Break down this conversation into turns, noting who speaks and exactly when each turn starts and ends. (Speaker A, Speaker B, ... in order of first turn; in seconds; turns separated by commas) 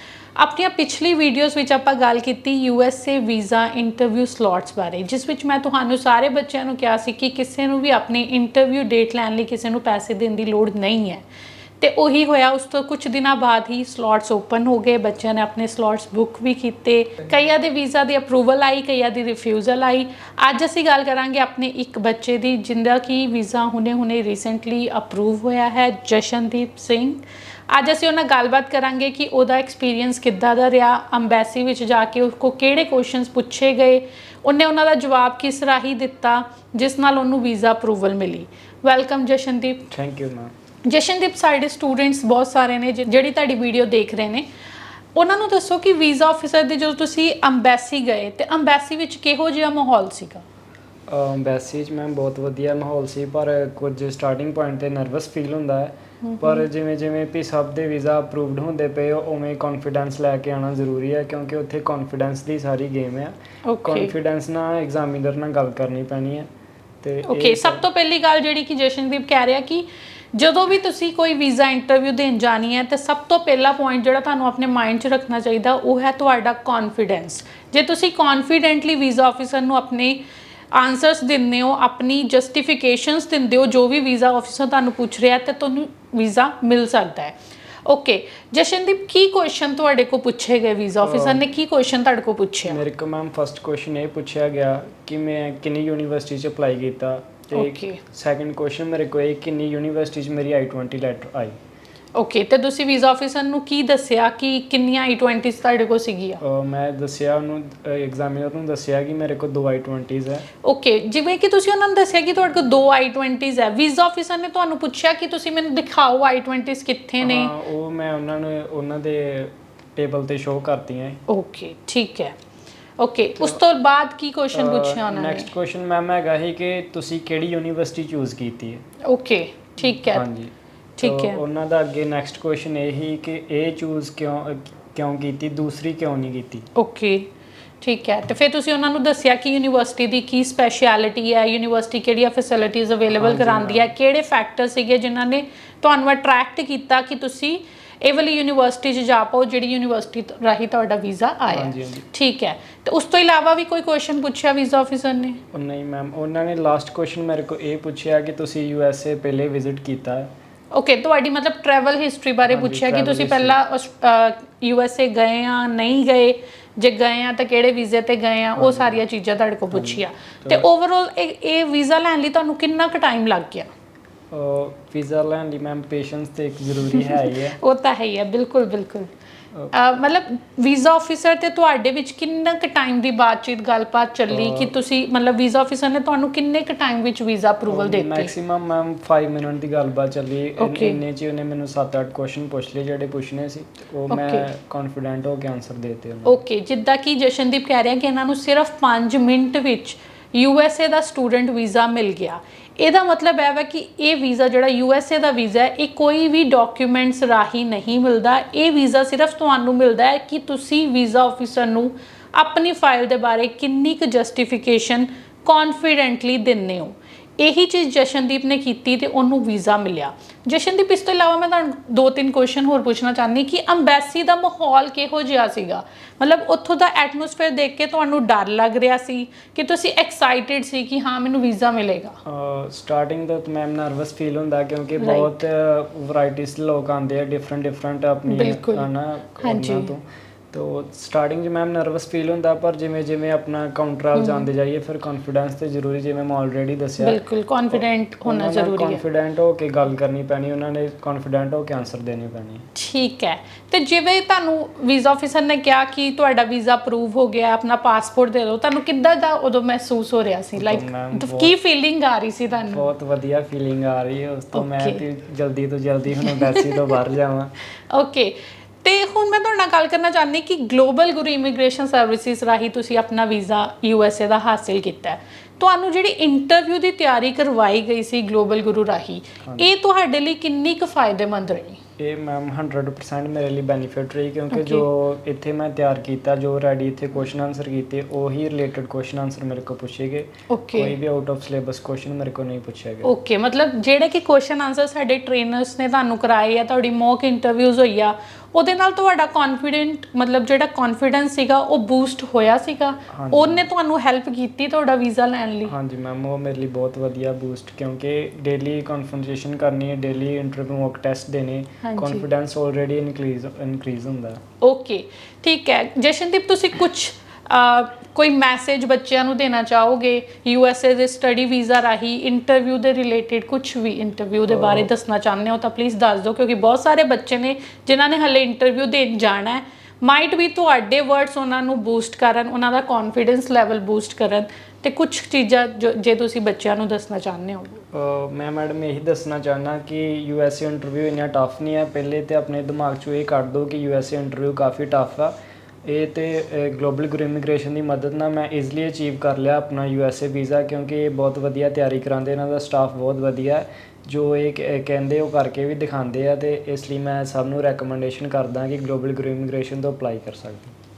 Speaker A: 0.3-11.2, Speaker A: 11.8-39.9, Speaker B: 39.9-40.5, Speaker A: 40.9-44.5, Speaker A: 45.1-50.4, Speaker B: 51.1-66.5, Speaker A: 56.2-56.7, Speaker A: 63.6-64.1, Speaker B: 67.0-67.8, Speaker A: 67.2-92.8, Speaker B: 91.0-91.4, Speaker B: 92.7-101.6, Speaker A: 97.5-98.0, Speaker A: 102.2-106.4, Speaker B: 106.4-110.5, Speaker A: 110.6-117.5, Speaker B: 117.2-121.2, Speaker A: 121.3-122.4, Speaker A: 123.0-125.5, Speaker B: 124.5-128.8, Speaker A: 129.0-130.3, Speaker B: 129.8-136.7, Speaker A: 131.0-131.4, Speaker A: 136.8-155.4, Speaker B: 143.1-143.9, Speaker B: 151.5-152.1, Speaker B: 155.5-160.3, Speaker A: 160.7-173.7, Speaker B: 162.4-163.6, Speaker B: 168.6-169.0, Speaker B: 169.7-170.7, Speaker B: 174.3-177.6, Speaker A: 176.9-179.1, Speaker A: 179.7-188.3, Speaker B: 184.3-184.8, Speaker B: 187.7-196.4, Speaker A: 190.6-191.0, Speaker A: 194.1-194.5, Speaker A: 196.2-232.2, Speaker B: 232.2-252.7, Speaker A: 235.0-235.4, Speaker A: 238.3-238.9, Speaker A: 239.4-239.9, Speaker A: 244.2-244.5, Speaker A: 247.0-249.0, Speaker A: 252.8-262.9, Speaker B: 260.6-261.6, Speaker B: 262.6-267.5, Speaker A: 264.6-265.0, Speaker A: 266.2-266.7, Speaker A: 267.9-281.8, Speaker B: 279.4-279.7, Speaker B: 282.0-293.1, Speaker A: 284.5-284.9, Speaker A: 290.5-290.9, Speaker A: 293.0-305.7, Speaker B: 303.1-303.7, Speaker B: 305.6-314.4, Speaker A: 311.8-312.2, Speaker A: 314.6-337.9, Speaker B: 324.5-324.9, Speaker B: 337.9-360.7